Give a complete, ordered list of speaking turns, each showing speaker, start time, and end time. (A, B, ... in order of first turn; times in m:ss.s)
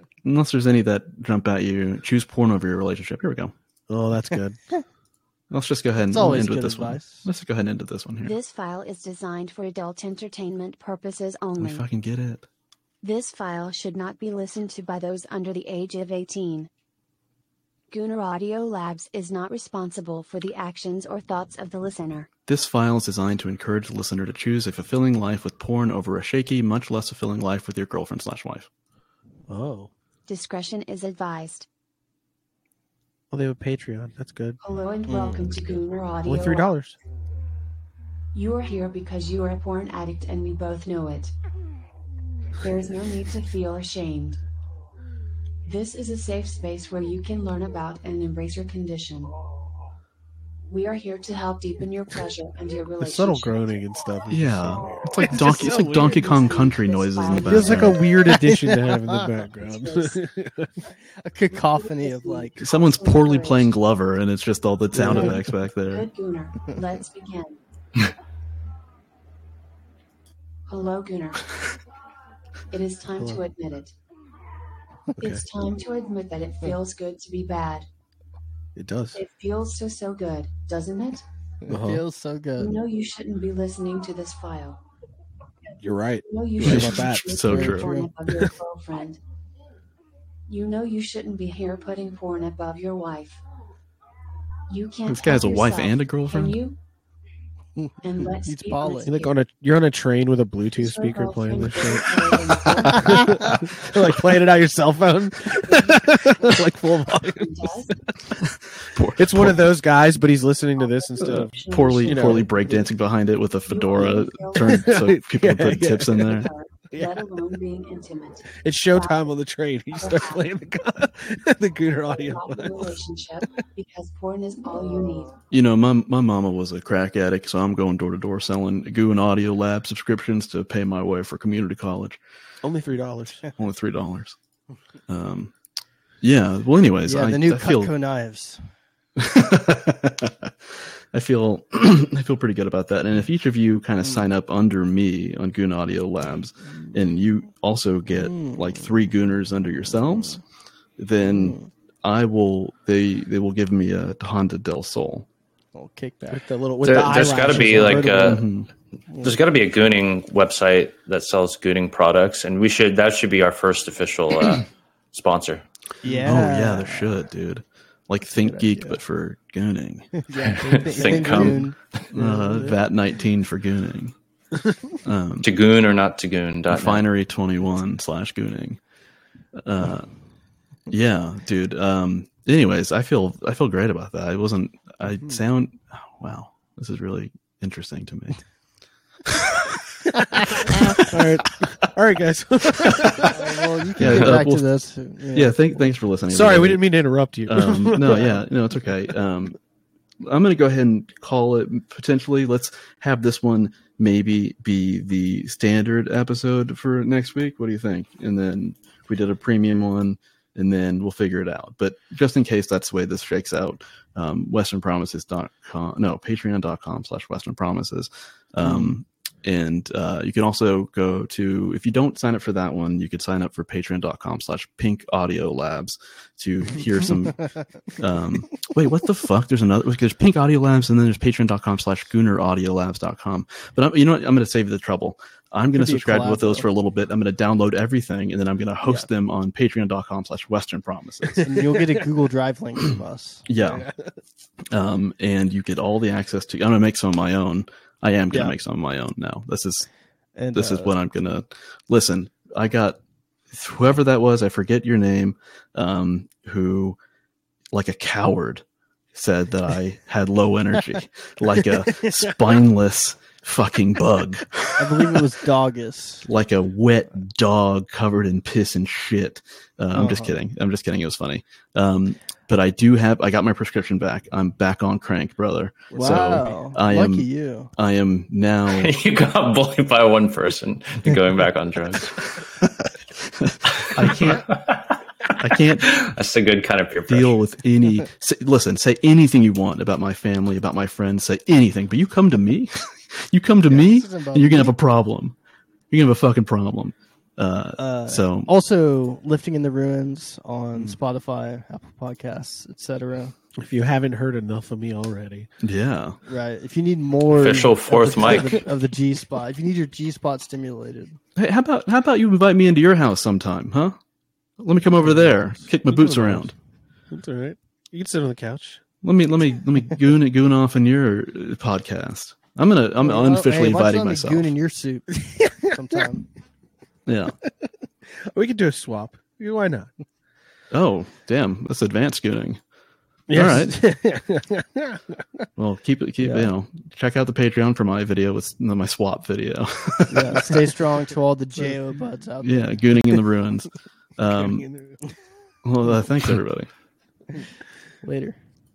0:00.2-0:03.5 A
0:03.9-0:04.6 B
0:05.5-0:08.3 A
0:06.1-0:07.3 C
0:08.2-0:11.8 D
0:11.6-0:12.4 A
0:13.0-0:16.7 D
0:17.9-0:22.3 D
0:22.5-0:28.7 A
0:29.5-0:29.9 B
0:30.3-0:31.7 D
0:33.3-0:34.6 B
0:34.6-0:36.7 D
0:35.1-0:35.4 C
0:36.2-0:37.0 B
0:38.3-0:41.3 D
0:42.6-0:44.4 D
0:45.6-0:49.3 D
0:50.7-0:53.6 D
0:53.0-0:56.3 B
0:54.3-0:58.0 A
0:55.2-0:58.0 D
0:57.4-1:00.7 B
0:58.3-0:59.1 C
0:59.6-1:00.2 D
1:01.2-1:02.6 C
1:01.5-1:03.7 D
1:02.6-1:06.1 A
1:05.0-1:07.6 D
1:10.7-1:11.5 D
1:12.7-1:13.9 D
1:15.2-1:17.8 D
1:18.8-1:19.2 B
1:19.1-1:21.2 D
1:21.7-1:22.8 C
1:21.7-1:22.0 B
1:22.6-1:24.8 D
1:25.8-1:27.3 B
1:26.2-1:29.2 D
1:26.6-1:27.9 A
1:27.4-1:28.1 C
1:30.5-1:33.4 D
1:34.7-1:36.8 D
1:35.1-1:36.6 A
1:37.8-1:39.2 C
1:38.0-1:39.3 D
1:39.0-1:47.7 B
1:40.8-1:43.6 D
1:45.6-1:46.5 D
1:47.2-1:48.0 D
1:48.4-1:49.6 A
1:49.1-1:52.5 B
1:50.8-1:52.5 D
1:51.2-1:56.5 A
1:53.7-1:55.0 D
1:54.1-1:57.2 B
1:56.3-1:59.3 D
1:58.6-2:02.9 B
1:59.9-2:00.4 D
2:02.1-2:05.4 D
2:05.5-2:12.2 A
2:12.6-2:13.5 B
2:13.6-2:14.4 A
2:15.1-2:15.5 A
2:16.2-2:17.9 A
2:17.1-2:18.6 C
2:19.2-2:20.5 A
2:21.1-2:30.4 A
2:28.1-2:28.8 C
2:31.0-2:35.3 A
2:31.3-2:31.7 C
2:35.7-2:36.4 C
2:36.3-2:38.3 B
2:36.8-2:38.4 E
2:37.4-2:38.4 C
2:38.2-2:38.7 A
2:39.2-2:45.6 E
2:46.0-2:47.1 C
2:46.2-2:50.1 A
2:48.4-2:48.9 C
2:50.2-2:52.7 C
2:50.3-2:52.0 E
2:51.0-2:54.1 A
2:55.0-2:55.5 A
2:55.4-2:57.0 E
2:56.7-2:58.8 A
2:59.5-3:00.1 A
3:00.9-3:08.4 A
3:09.2-3:09.8 A
3:10.1-3:13.5 B
3:10.6-3:11.0 A
3:13.2-3:15.6 C
3:14.0-3:14.7 A
3:15.3-3:16.8 A
3:16.3-3:18.2 B
3:17.5-3:19.6 A
3:20.2-3:47.5 A
3:38.7-3:38.9 C
3:48.0-4:01.6 A
3:55.8-3:56.7 C
4:01.3-4:02.0 B
4:01.4-4:03.4 C
4:03.5-4:03.9 A
4:03.6-4:04.0 B
4:04.7-4:09.9 A
4:10.4-4:10.9 C
4:10.5-4:13.0 A
4:13.5-4:17.0 A
4:17.7-4:25.2 A
4:24.8-4:26.2 C
4:26.2-4:38.9 A
4:29.9-4:30.3 C
4:35.9-4:37.7 C
4:35.9-4:36.5 B
4:38.7-4:42.2 E
4:43.3-4:44.4 A
4:43.7-4:45.3 E
4:45.4-4:46.0 A
4:45.8-4:47.4 E
4:47.1-4:55.4 A
4:53.7-4:54.7 C
4:55.9-4:58.5 A
4:57.8-5:03.3 C
5:03.6-5:05.5 B
5:05.6-5:06.2 A
5:06.3-5:11.2 C
5:07.3-5:08.6 E
5:11.4-5:14.0 A
5:14.6-5:16.5 A
5:17.1-5:18.8 B
5:19.0-5:24.5 A
5:23.0-5:26.2 C
5:25.4-5:26.0 B
5:27.0-5:27.3 A
5:28.3-5:29.9 B
5:30.7-5:32.6 A
5:33.3-5:35.2 B
5:33.3-5:33.8 A
5:35.6-5:40.7 A
5:36.2-5:36.5 C
5:40.1-5:42.7 C
5:42.4-5:44.7 A
5:44.3-5:45.0 B
5:45.6-5:46.7 A
5:48.0-5:48.4 C